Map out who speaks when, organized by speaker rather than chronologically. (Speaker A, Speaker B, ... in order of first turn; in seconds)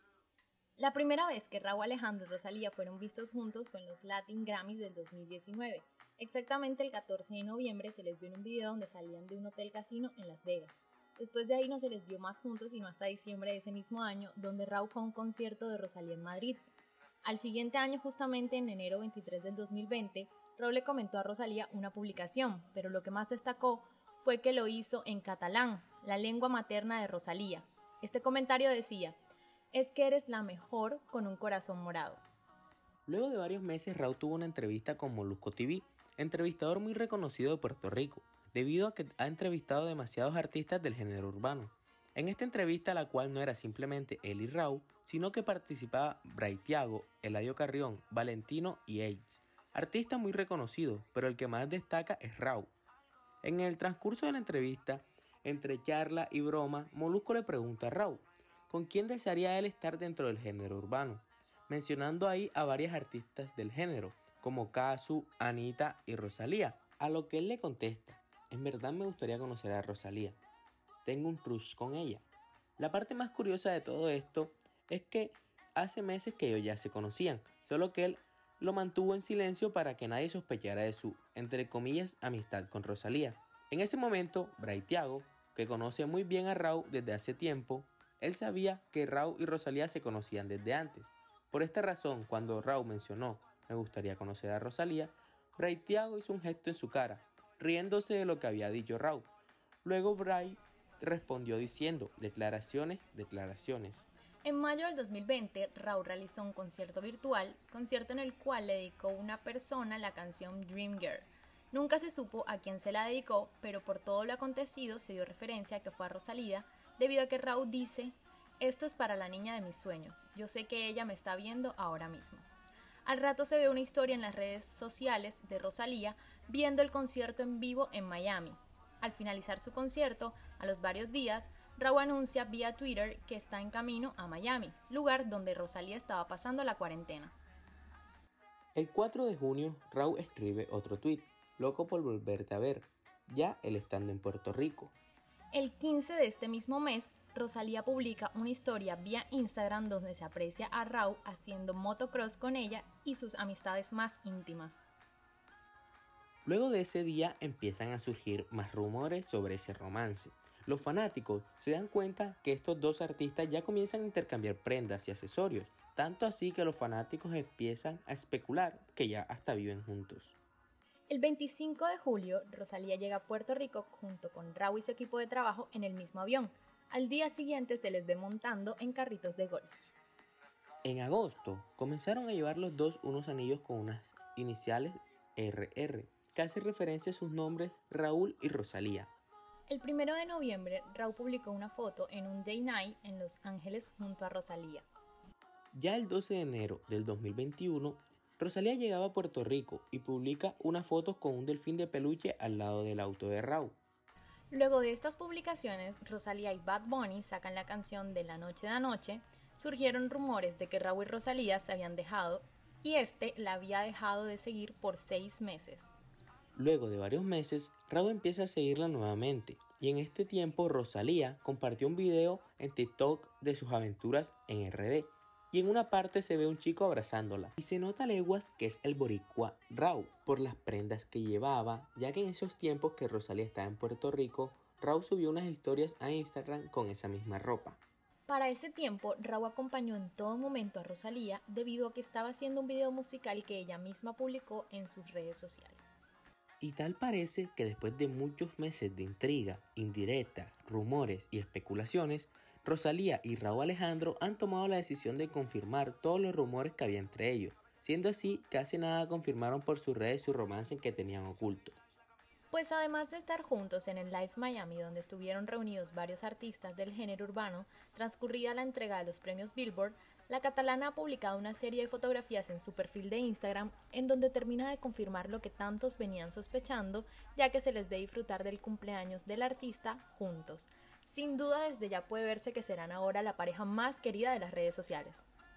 Speaker A: 0.8-16.7, 17.2-29.2, 29.7-32.2, 104.4-122.5, 123.0-137.4, 145.5-154.9, 171.1-179.8, 189.7-194.9, 204.5-215.9, 238.3-245.9, 262.5-285.2
Speaker B: 33.1-52.7, 53.4-70.4, 71.0-72.2, 72.8-99.3, 99.8-104.1, 138.8-144.9, 156.4-170.4, 180.8-189.1, 195.8-203.8, 216.6-237.8, 246.6-261.8